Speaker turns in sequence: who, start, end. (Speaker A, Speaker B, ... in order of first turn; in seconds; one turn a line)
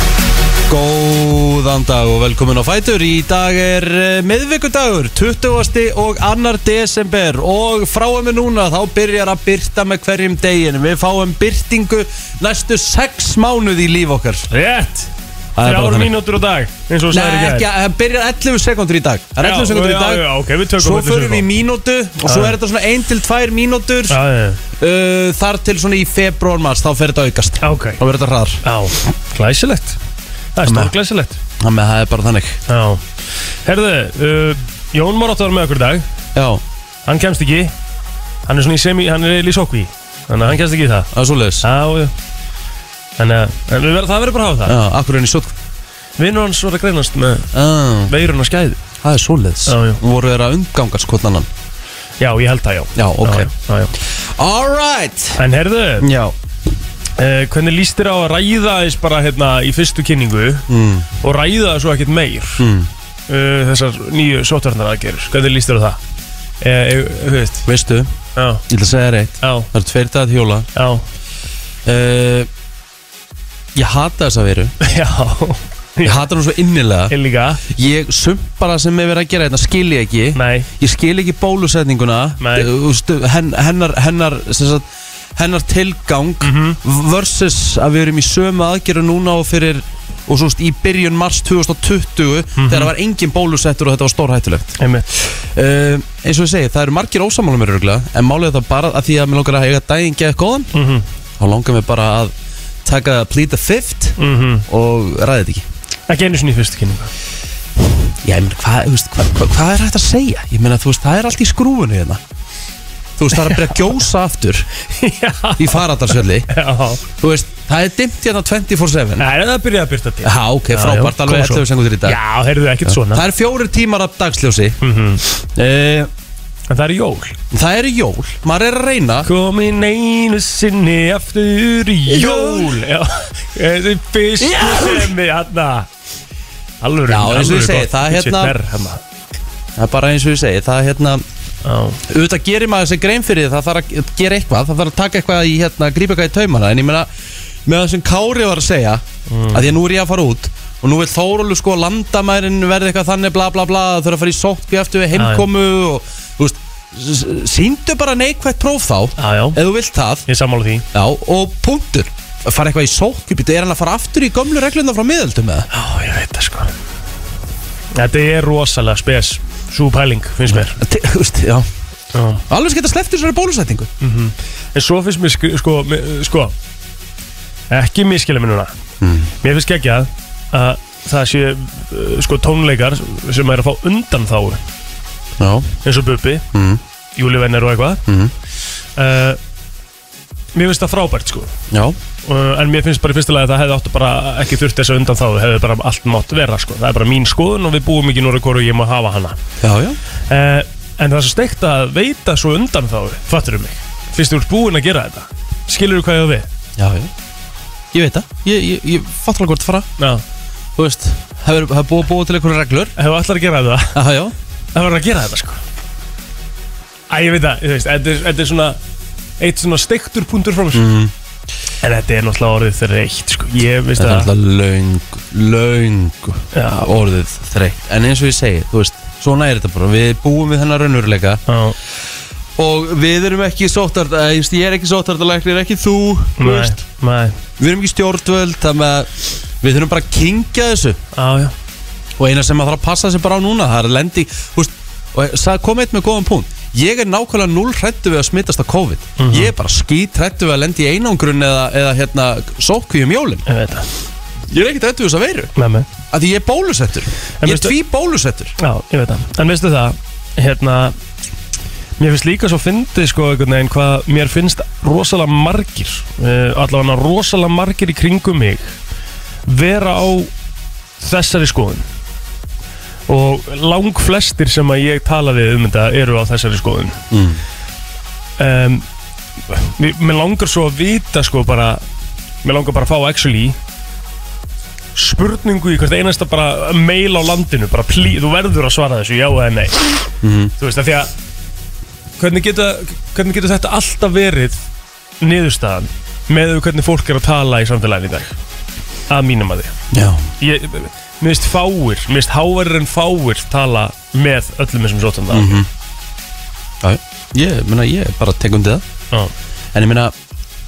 Speaker A: 0.7-14.5
Speaker B: 14.5-15.1
Speaker A: 15.6-16.2
Speaker B: 15.6-17.7
Speaker A: 17.1-24.2
Speaker B: 19.4-21.5
Speaker B: 22.2-22.6
Speaker B: 24.1-24.6
Speaker A: 24.8-28.6
Speaker B: 27.6-28.0
Speaker B: 28.6-30.0
Speaker B: 30.6-31.4
Speaker A: 30.6-30.9
Speaker A: 31.6-32.6
Speaker B: 32.7-33.0
Speaker B: 33.6-36.0
Speaker A: 36.3-36.6
Speaker B: 37.0-37.7
Speaker B: 38.5-41.1
Speaker A: 41.1-41.7
Speaker B: 41.6-42.1
Speaker B: 43.2-44.8
Speaker A: 44.6-45.5
Speaker B: 46.2-47.5
Speaker A: 47.5-48.1
Speaker B: 48.1-48.8
Speaker A: 49.0-51.5
Speaker B: 49.6-50.0
Speaker B: 52.2-53.9
Speaker A: 53.0-53.5
Speaker A: 54.0-55.4
Speaker B: 55.4-56.1
Speaker A: 56.0-56.3
Speaker B: 57.2-60.6
Speaker A: 60.7-61.1
Speaker B: 61.2-62.6
Speaker A: 62.6-62.9
Speaker B: 63.3-66.0
Speaker B: 66.6-67.7
Speaker A: 67.7-68.1
Speaker B: 68.3-68.6
Speaker A: 68.7-70.7
Speaker B: 69.4-69.7
Speaker B: 70.8-71.0
Speaker A: 71.8-72.5
Speaker A: 73.8-74.7
Speaker B: 74.8-76.2
Speaker A: 76.0-100.7
Speaker B: 77.1-77.6
Speaker B: 80.3-80.7
Speaker B: 82.4-82.7
Speaker B: 86.4-86.8
Speaker B: 92.6-92.9
Speaker B: 94.8-95.1
Speaker B: 100.7-101.0
Speaker A: 101.4-102.3
Speaker A: 102.8-105.7
Speaker B: 104.2-104.7
Speaker B: 106.1-107.1
Speaker A: 108.2-112.2
Speaker A: 113.2-114.7
Speaker B: 113.3-113.8
Speaker B: 115.0-117.0
Speaker A: 115.6-116.5
Speaker A: 117.2-119.3
Speaker B: 119.2-123.2
Speaker A: 120.2-122.2
Speaker A: 122.8-126.1
Speaker B: 124.8-125.2
Speaker B: 126.7-127.3
Speaker A: 127.5-129.3
Speaker B: 129.2-135.9
Speaker A: 132.1-132.8
Speaker A: 134.4-135.1
Speaker B: 136.8-139.0
Speaker A: 137.1-138.6
Speaker A: 139.8-141.2
Speaker B: 141.6-142.0
Speaker A: 142.1-147.1
Speaker A: 147.7-160.2
Speaker B: 149.3-149.7
Speaker B: 155.2-155.5
Speaker B: 159.2-159.6
Speaker B: 160.2-160.8
Speaker A: 160.9-165.7
Speaker B: 165.7-166.7
Speaker B: 167.9-170.8
Speaker A: 170.5-171.7
Speaker B: 172.1-172.4
Speaker A: 172.5-173.9
Speaker B: 174.0-176.5
Speaker B: 177.7-178.7
Speaker A: 179.0-179.3
Speaker B: 179.4-184.6
Speaker A: 185.4-185.7
Speaker B: 185.8-186.4
Speaker A: 186.5-186.8
Speaker B: 187.2-188.0
Speaker A: 188.1-188.3
Speaker B: 189.0-189.4
Speaker B: 190.6-191.5
Speaker A: 191.7-192.0
Speaker B: 192.2-199.4
Speaker A: 199.6-200.0
Speaker B: 200.3-206.5
Speaker A: 206.8-207.1
Speaker A: 207.9-209.9
Speaker B: 210.0-210.2
Speaker A: 210.8-212.9
Speaker B: 213.0-213.9
Speaker A: 213.9-214.3
Speaker B: 214.7-215.6
Speaker B: 217.1-218.8
Speaker B: 219.4-220.8
Speaker A: 220.7-221.1
Speaker B: 221.8-224.3
Speaker A: 224.0-231.4
Speaker B: 226.5-227.0
Speaker B: 231.5-231.8
Speaker A: 232.6-236.8
Speaker B: 236.4-237.4
Speaker A: 237.6-241.0
Speaker B: 241.2-241.5
Speaker A: 242.2-253.4
Speaker B: 249.2-249.5
Speaker B: 253.5-253.9
Speaker A: 254.5-255.5
Speaker B: 255.6-255.9
Speaker A: 256.1-258.5
Speaker B: 257.4-257.8
Speaker B: 258.6-260.9
Speaker B: 262.0-268.8
Speaker B: 269.5-270.3
Speaker B: 271.0-271.8
Speaker B: 273.1-277.0
Speaker A: 277.1-277.4
Speaker B: 278.4-278.8
Speaker B: 279.5-281.8
Speaker B: 282.4-283.6
Speaker B: 284.9-290.0
Speaker A: 290.2-290.5
Speaker B: 290.6-291.1
Speaker B: 292.2-294.6
Speaker B: 295.2-298.3
Speaker B: 299.1-299.8
Speaker A: 299.9-300.3
Speaker B: 300.4-305.6
Speaker A: 305.3-305.7
Speaker A: 306.8-308.8
Speaker A: 309.7-310.1